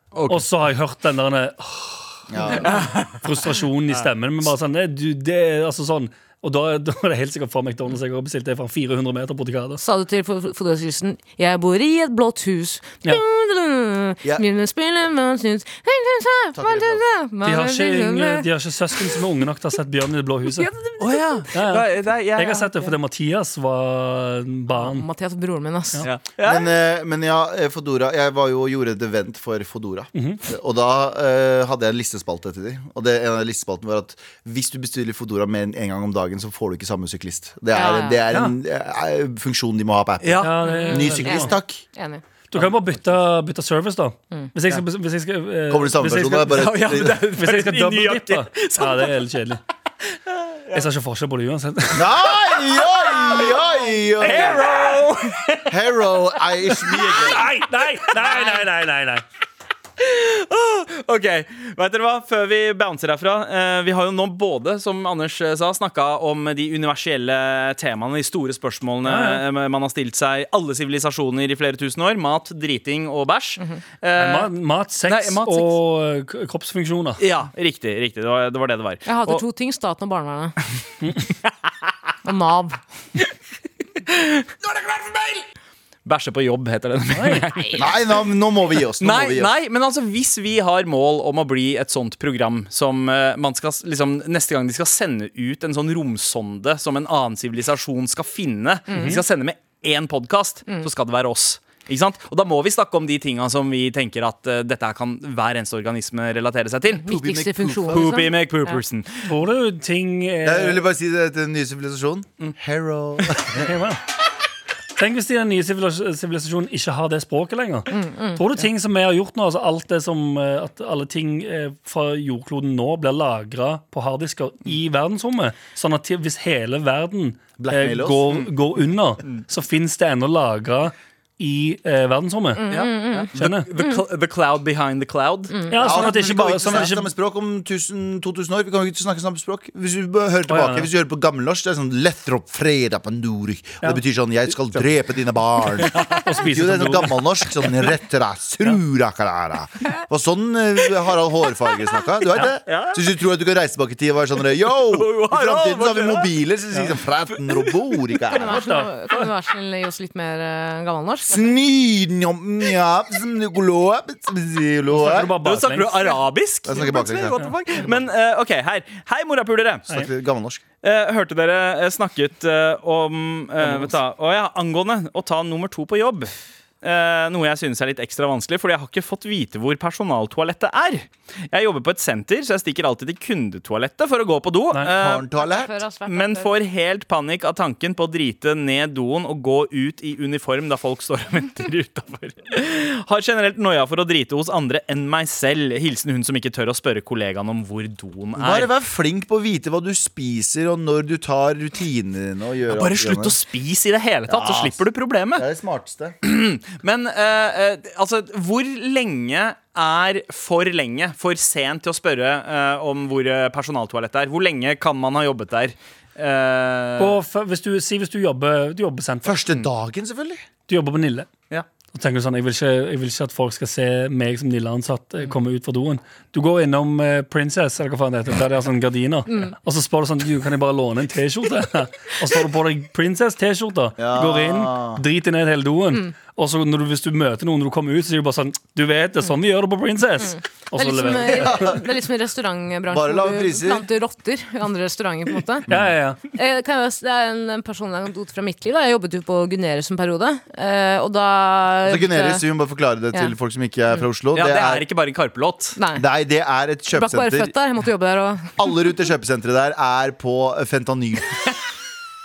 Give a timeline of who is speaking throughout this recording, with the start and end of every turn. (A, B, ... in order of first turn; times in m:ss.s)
0:00.1-0:00.4 A
0:00.3-0:09.8 B
0:02.3-0:02.9 C
0:02.6-0:03.2 A
0:09.8-0:19.2 D
0:16.5-0:17.0 C
0:17.4-0:20.7 B
0:20.5-0:21.5 D
0:21.0-0:23.0 A
0:21.5-0:25.0 B
0:24.7-0:26.0 D
0:26.0-0:26.7 A
0:26.4-0:41.8 C
0:30.1-0:30.4 B
0:37.7-0:38.2 D
0:40.2-0:40.6 A
0:40.4-0:41.5 B
0:40.6-0:42.2 D
0:42.5-0:46.7 B
0:45.7-0:47.2 C
0:46.5-0:49.2 A
0:47.2-0:49.6 B
0:50.3-0:50.8 A
0:50.7-0:52.2 B
0:51.9-0:54.6 C
0:52.6-0:53.6 A
0:54.2-0:55.8 A
0:54.2-0:55.0 B
0:55.7-0:57.5 C
0:56.8-0:59.2 B
0:58.1-0:58.4 A
1:00.0-1:14.5 A
1:09.0-1:09.4 B
1:14.2-1:17.2 B
1:15.0-1:15.8 A
1:17.2-1:19.4 A
1:19.0-1:20.6 D
1:22.2-1:22.8 D
1:24.7-1:25.4 A
1:26.0-1:28.0 A
1:27.1-1:27.4 B
1:27.8-1:29.5 C
1:29.0-1:47.1 A
1:38.9-1:39.2 D
1:38.9-1:39.2 B
1:47.0-1:48.8 D
1:47.1-1:48.2 C
1:47.9-1:49.3 A
1:49.2-1:50.8 B
1:50.4-1:53.7 C
1:53.4-1:54.0 B
1:55.0-2:12.7 B
1:57.9-1:58.4 D
2:07.6-2:08.4 C
2:12.6-2:14.0 D
2:12.7-2:15.6 A
2:13.3-2:13.7 B
2:15.5-2:16.0 D
2:15.7-2:17.1 B
2:15.8-2:38.6 C
2:20.5-2:20.9 B
2:25.8-2:26.3 A
2:25.9-2:27.7 B
2:32.6-2:33.0 A
2:34.8-2:36.3 A
2:37.5-2:37.9 A
2:38.3-2:41.5 D
2:38.4-2:39.3 B
2:41.3-2:45.3 C
2:44.9-2:46.2 B
2:45.4-2:49.9 A
2:46.6-2:48.0 C
2:49.9-2:50.6 C
2:50.8-3:05.2 A
2:53.6-2:53.9 B
3:04.9-3:05.7 C
3:05.3-3:06.5 D
3:06.1-3:18.7 A
3:18.4-3:23.4 C
3:22.7-3:25.4 A
3:24.3-3:24.8 C
3:25.4-3:26.2 C
3:26.2-3:37.2 A
3:37.0-3:39.4 B
3:39.2-3:40.4 C
3:40.7-3:41.3 B
3:41.9-4:01.8 B
3:54.0-3:55.0 C
4:00.7-4:05.7 D
4:01.2-4:01.8 C
4:02.9-4:03.8 C
4:05.7-4:05.9 C
4:05.7-4:06.2 B
4:06.3-4:12.4 D
4:11.8-4:14.8 C
4:14.3-4:15.8 A
4:15.8-4:16.0 D
4:16.0-4:17.5 C
4:16.9-4:18.7 D
4:18.6-4:21.5 C